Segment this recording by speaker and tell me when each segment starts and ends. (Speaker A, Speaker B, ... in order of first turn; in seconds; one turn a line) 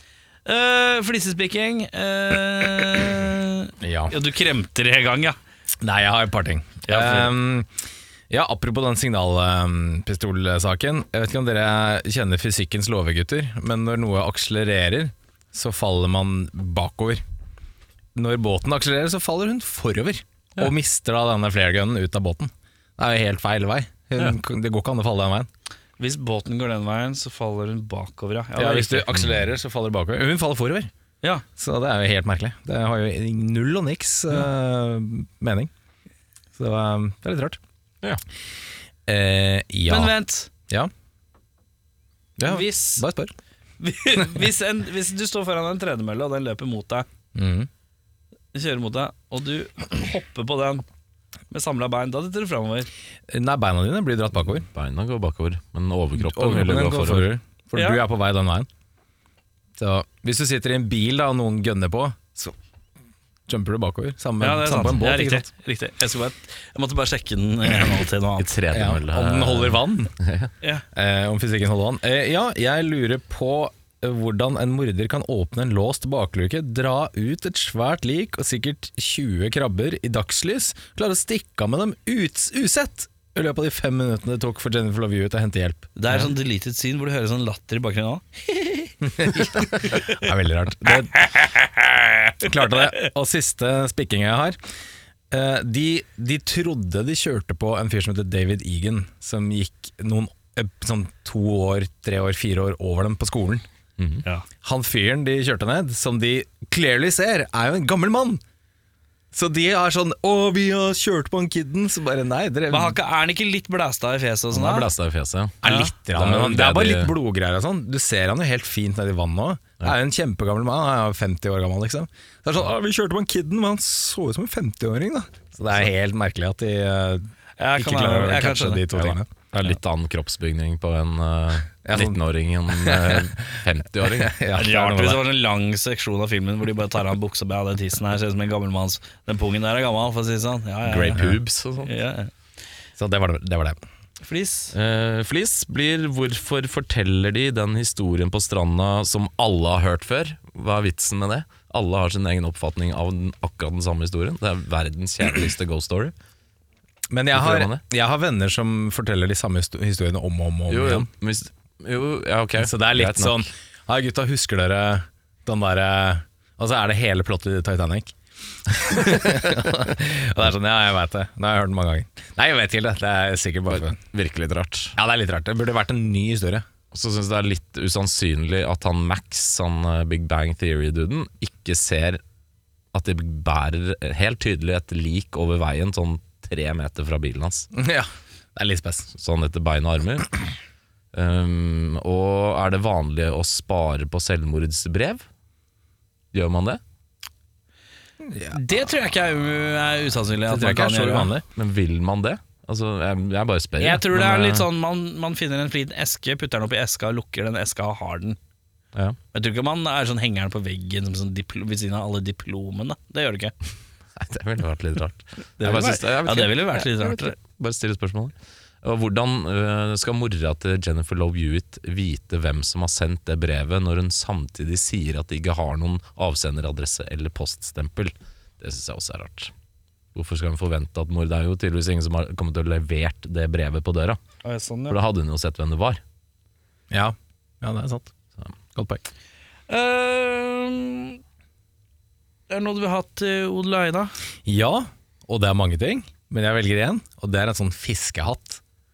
Speaker A: 0.5-5.4
Speaker B: 3.8-4.2
Speaker B: 5.8-7.7
Speaker A: 6.8-7.3
Speaker B: 8.3-17.2
Speaker B: 18.1-25.5
Speaker A: 26.0-29.1
Speaker B: 28.6-30.9
Speaker C: 29.1-29.4
Speaker B: 31.6-35.7
Speaker B: 36.5-37.6
Speaker B: 39.1-40.1
Speaker A: 39.9-40.5
Speaker B: 42.4-43.3
Speaker A: 42.4-43.0
Speaker A: 43.8-47.1
Speaker B: 47.3-47.7
Speaker A: 48.5-50.8
Speaker A: 51.5-52.9
Speaker B: 53.3-54.7
Speaker C: 54.7-57.3
Speaker B: 56.2-58.7
Speaker A: 57.7-58.0
Speaker B: 59.8-62.5
Speaker B: 63.5-65.5
Speaker A: 64.4-68.5
Speaker C: 68.4-70.5
Speaker B: 68.7-70.1
Speaker B: 70.9-86.3
Speaker A: 86.0-90.1
Speaker B: 89.0-94.6
Speaker B: 95.3-103.6
Speaker C: 104.0-104.2
Speaker B: 104.6-108.4
Speaker B: 109.3-113.0
Speaker A: 112.7-114.9
Speaker C: 114.5-117.1
Speaker B: 115.6-129.7
Speaker A: 115.6-115.9
Speaker A: 127.6-129.1
Speaker C: 129.5-134.3
Speaker B: 131.8-133.3
Speaker B: 134.1-135.2
Speaker A: 134.5-141.2
Speaker C: 140.8-141.9
Speaker A: 141.8-142.3
Speaker B: 143.0-143.8
Speaker A: 144.2-144.7
Speaker C: 144.7-156.1
Speaker B: 157.1-161.1
Speaker C: 157.3-157.8
Speaker C: 160.7-163.4
Speaker B: 162.6-168.1
Speaker B: 168.7-174.0
Speaker C: 173.7-174.9
Speaker B: 174.9-176.7
Speaker C: 176.9-182.2
Speaker C: 182.9-187.7
Speaker B: 187.7-189.1
Speaker C: 189.1-190.3
Speaker C: 191.1-195.2
Speaker C: 196.3-196.8
Speaker B: 198.2-198.6
Speaker A: 198.5-201.3
Speaker B: 200.5-201.4
Speaker C: 201.5-204.7
Speaker A: 203.8-208.4
Speaker A: 209.3-213.5
Speaker C: 214.2-229.5
Speaker A: 215.6-217.3
Speaker C: 230.1-234.2
Speaker A: 234.4-235.0
Speaker C: 234.9-236.0
Speaker B: 236.9-238.1
Speaker B: 238.7-239.0
Speaker A: 239.7-241.2
Speaker A: 242.5-244.1
Speaker B: 244.4-248.6